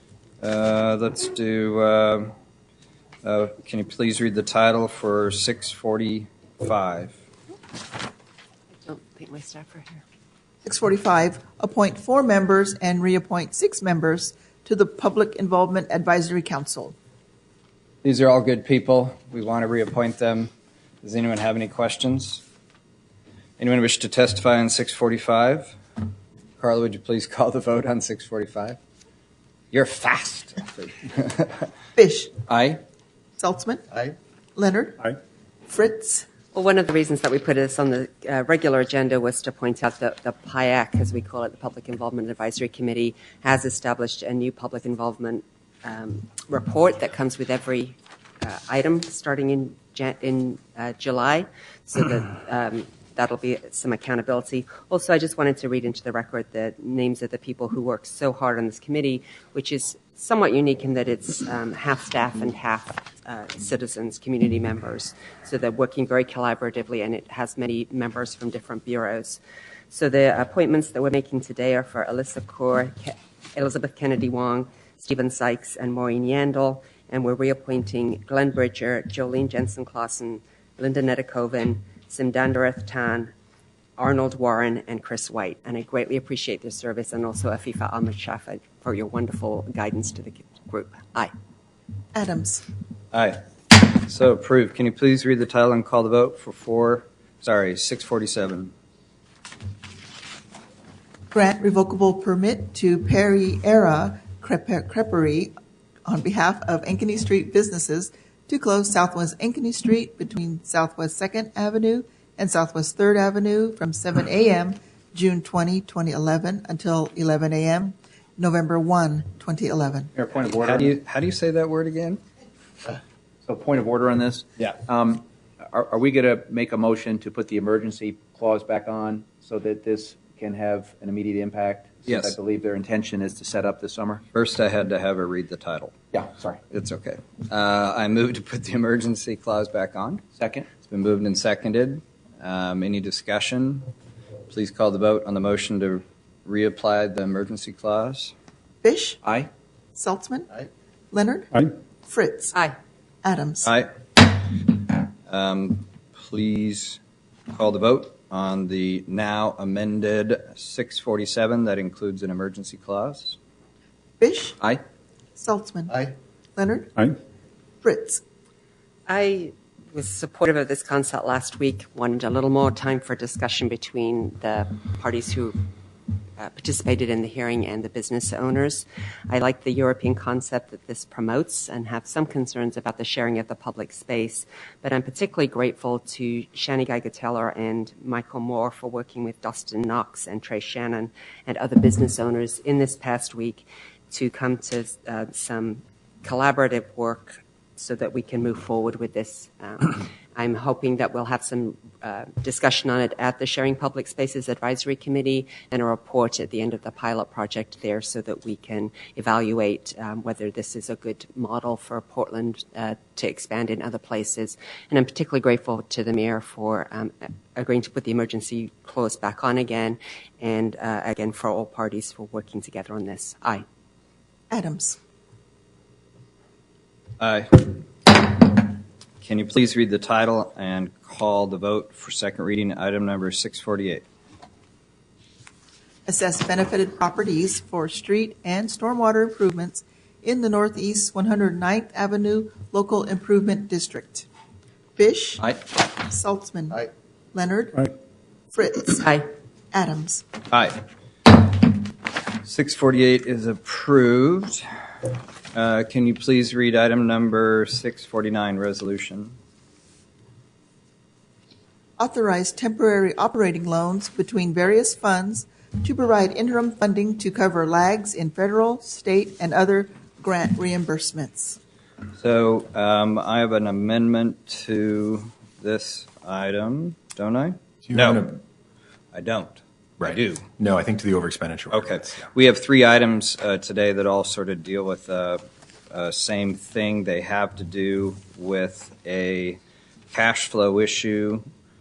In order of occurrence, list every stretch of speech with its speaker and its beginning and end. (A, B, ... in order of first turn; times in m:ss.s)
0:00.4-0:02.3 A
0:03.2-0:07.1 A
0:08.8-0:10.0 B
0:10.6-0:16.9 C
0:18.0-0:20.5 A
0:21.0-0:22.4 A
0:23.6-0:25.8 A
0:26.6-0:28.8 A
0:29.7-0:31.6 A
0:32.0-0:32.3 C
0:32.5-0:32.8 A
0:33.4-0:34.0 C
0:34.6-0:35.1 C
0:35.7-0:36.3 C
0:36.5-1:23.3 B
1:24.0-1:31.3 B
1:32.1-1:32.6 C
1:33.1-1:33.4 A
1:33.9-1:38.7 A
1:41.3-1:45.5 C
1:46.0-2:00.1 C
2:00.2-2:00.9 D
2:00.5-2:02.2 A
2:03.4-2:14.2 D
2:12.1-2:12.3 A
2:14.3-2:16.0 A
2:16.1-2:16.6 D
2:16.7-2:20.2 A
2:20.4-2:20.7 D
2:20.8-2:23.8 A
2:24.5-2:28.3 A
2:28.8-2:29.2 C
2:29.2-2:29.5 D
2:29.9-2:30.5 C
2:31.1-2:32.5 C
2:33.2-2:33.7 C
2:33.6-2:34.6 A
2:35.3-2:37.0 A
2:37.5-2:43.4 A
2:44.2-2:44.6 C
2:45.4-2:47.0 C
2:47.8-2:48.2 C
2:49.1-2:55.6 B
2:56.4-3:43.6 B
3:44.5-3:45.0 C
3:47.2-3:48.7 A
3:49.2-3:54.0 A
3:56.1-4:04.2 C
4:05.0-4:07.9 C
4:08.5-4:09.1 C
4:09.7-4:10.2 C
4:10.5-4:10.8 A
4:12.4-4:14.6 A
4:15.5-4:19.3 A
4:22.0-4:31.6 C
4:32.2-4:38.2 A
4:37.8-4:38.4 E
4:39.1-4:40.5 A
4:40.0-4:42.2 E
4:41.7-4:49.6 A
4:50.1-4:51.4 A